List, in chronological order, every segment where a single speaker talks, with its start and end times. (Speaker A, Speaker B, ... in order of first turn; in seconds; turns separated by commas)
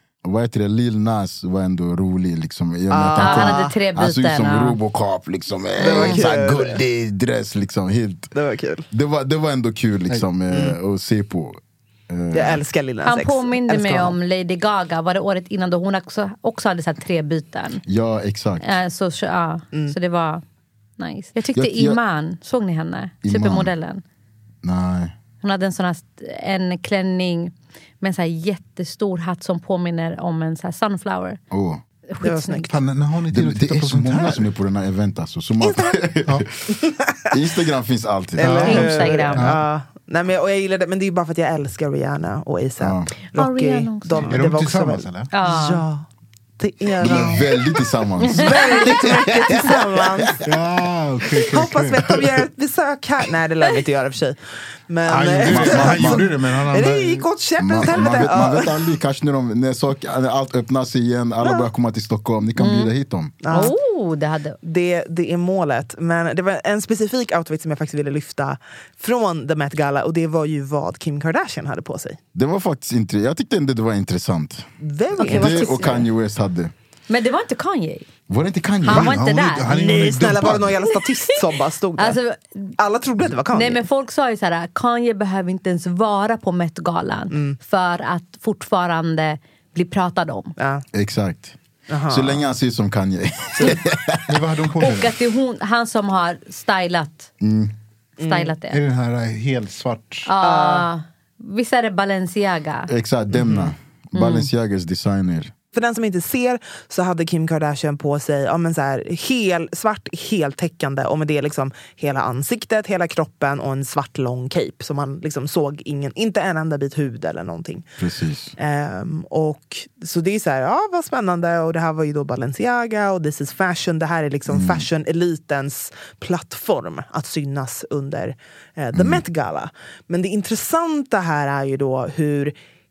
Speaker A: 0.2-8.3, Speaker B: 2.9-3.7, Speaker C: 3.2-4.8, Speaker B: 5.8-6.8, Speaker C: 5.8-6.1, Speaker B: 8.3-8.9, Speaker A: 8.9-12.6, Speaker B: 10.5-10.8, Speaker B: 12.3-14.1, Speaker C: 13.0-17.8, Speaker A: 17.9-18.7, Speaker C: 18.6-20.4, Speaker C: 21.0-24.0, Speaker A: 21.5-22.0, Speaker A: 23.2-23.7, Speaker A: 24.6-25.1, Speaker C: 25.4-31.4, Speaker A: 31.5-31.8, Speaker C: 32.1-32.7, Speaker B: 32.2-32.7, Speaker D: 32.7-34.5, Speaker A: 33.3-36.7, Speaker B: 35.6-36.0, Speaker B: 36.7-37.3, Speaker A: 37.3-38.9, Speaker B: 38.4-46.1, Speaker D: 38.4-39.6, Speaker C: 38.6-39.4, Speaker A: 42.8-43.1, Speaker C: 43.3-44.5, Speaker D: 44.3-45.3, Speaker C: 45.3-45.8, Speaker B: 46.6-50.3, Speaker A: 47.0-50.4, Speaker C: 48.5-48.7, Speaker D: 50.4-52.0, Speaker B: 51.5-58.9, Speaker D: 55.1-57.2, Speaker A: 55.4-56.3, Speaker A: 57.6-63.3, Speaker B: 61.4-61.7, Speaker C: 62.6-62.9, Speaker B: 63.4-63.7, Speaker C: 63.5-64.6, Speaker B: 64.6-72.2, Speaker A: 72.3-74.7, Speaker B: 74.8-75.8, Speaker C: 75.2-76.1, Speaker A: 75.2-76.7, Speaker C: 77.1-78.1, Speaker A: 78.3-79.2, Speaker C: 78.8-79.7, Speaker D: 78.9-80.7, Speaker B: 79.7-82.2, Speaker C: 82.0-82.7, Speaker B: 82.8-83.8, Speaker C: 83.5-90.5, Speaker B: 87.3-87.6, Speaker B: 90.6-90.8, Speaker A: 90.9-91.5, Speaker B: 91.9-92.4, Speaker A: 92.1-94.4, Speaker D: 94.3-95.1, Speaker C: 94.8-97.3, Speaker A: 97.4-97.7, Speaker B: 98.2-98.5, Speaker C: 98.2-98.8, Speaker D: 98.7-100.3, Speaker C: 100.2-102.9, Speaker B: 100.4-100.9, Speaker A: 102.9-105.5, Speaker B: 103.3-103.7, Speaker C: 104.1-104.5, Speaker B: 105.7-117.9, Speaker A: 118.0-118.5, Speaker B: 118.6-132.6, Speaker A: 124.5-124.8, Speaker A: 128.9-129.2